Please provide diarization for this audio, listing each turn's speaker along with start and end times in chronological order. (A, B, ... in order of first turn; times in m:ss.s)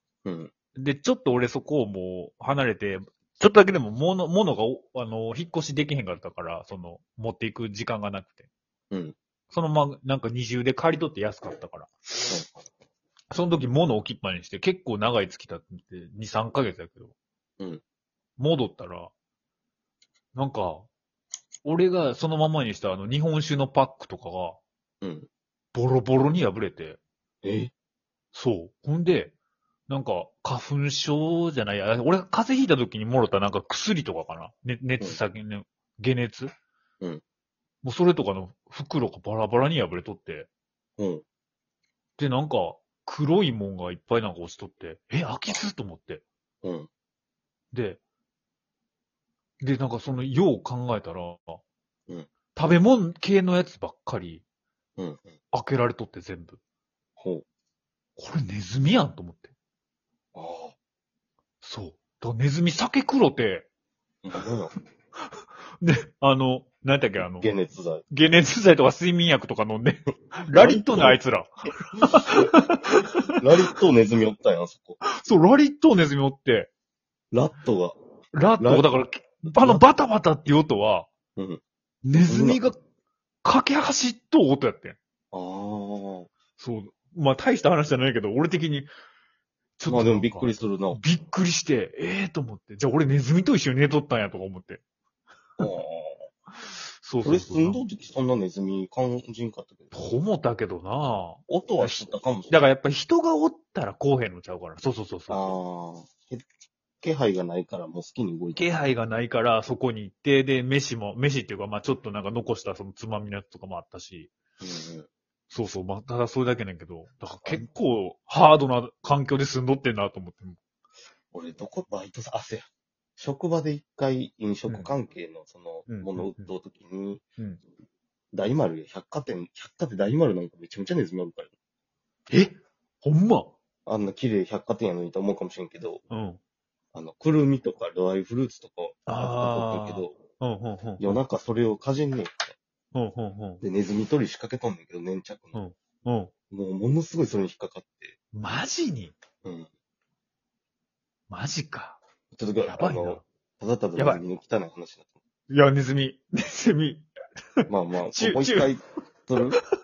0:00.2-0:00.5 A
0:00.8-0:08.5 B
0:09.5-0:11.9 B
0:12.2-0:12.6 A
0:13.3-0:17.1 B
0:18.4-0:19.1 B
0:20.3-0:20.9 B
0:21.6-0:24.6 B
0:25.0-0:25.3 A
0:25.7-0:27.0 B
0:27.4-0:27.7 A
0:28.3-0:29.3 B
0:29.9-0:36.5 B
0:37.8-0:40.5 B
0:41.0-0:41.2 A
0:42.2-0:46.2 B
0:46.6-0:46.9 A
0:47.7-0:48.0 B
0:49.6-0:51.6 B
0:52.5-0:54.4 B
0:55.0-0:55.2 A
0:55.5-0:56.6 B
0:57.2-0:57.4 A
0:58.2-0:59.5 B
1:00.3-1:00.8 A
1:01.6-1:03.7 B
1:04.2-1:04.7 A
1:05.8-1:07.5 B
1:07.4-1:08.0 A
1:08.1-1:13.3 B
1:10.5-1:11.2 A
1:12.3-1:15.0 A
1:15.0-1:16.7 B
1:17.3-1:18.0 A
1:18.3-1:21.1 B
1:18.6-1:19.8 A
1:22.0-1:22.8 B
1:22.2-1:22.6 A
1:23.4-1:25.0 B
1:25.3-1:26.3 A
1:26.6-1:28.9 B
1:29.8-1:34.8 B
1:29.9-1:31.0 A
1:35.6-1:36.3 A
1:37.0-1:37.8 B
1:37.2-1:39.9 A
1:39.9-1:45.6 B
1:41.5-1:42.7 A
1:45.3-1:46.4 A
1:47.0-1:48.7 A
1:48.6-1:54.3 B
1:54.6-1:55.1 A
1:55.5-2:00.6 B
2:01.3-2:02.7 A
2:03.2-2:07.2 A
2:05.9-2:06.5 B
2:08.3-2:11.5 A
2:12.3-2:13.5 B
2:13.9-2:16.0 A
2:16.1-2:16.4 B
2:16.9-2:20.1 A
2:19.1-2:21.2 B
2:21.0-2:22.5 A
2:22.9-2:23.6 B
2:23.6-2:25.6 A
2:25.5-2:26.3 B
2:26.5-2:28.2 A
2:28.3-2:29.1 B
2:31.3-2:32.0 B
2:32.3-2:35.1 A
2:32.6-2:33.2 B
2:34.0-2:34.2 B
2:35.5-2:37.0 B
2:37.6-2:38.7 B
2:37.7-2:39.6 A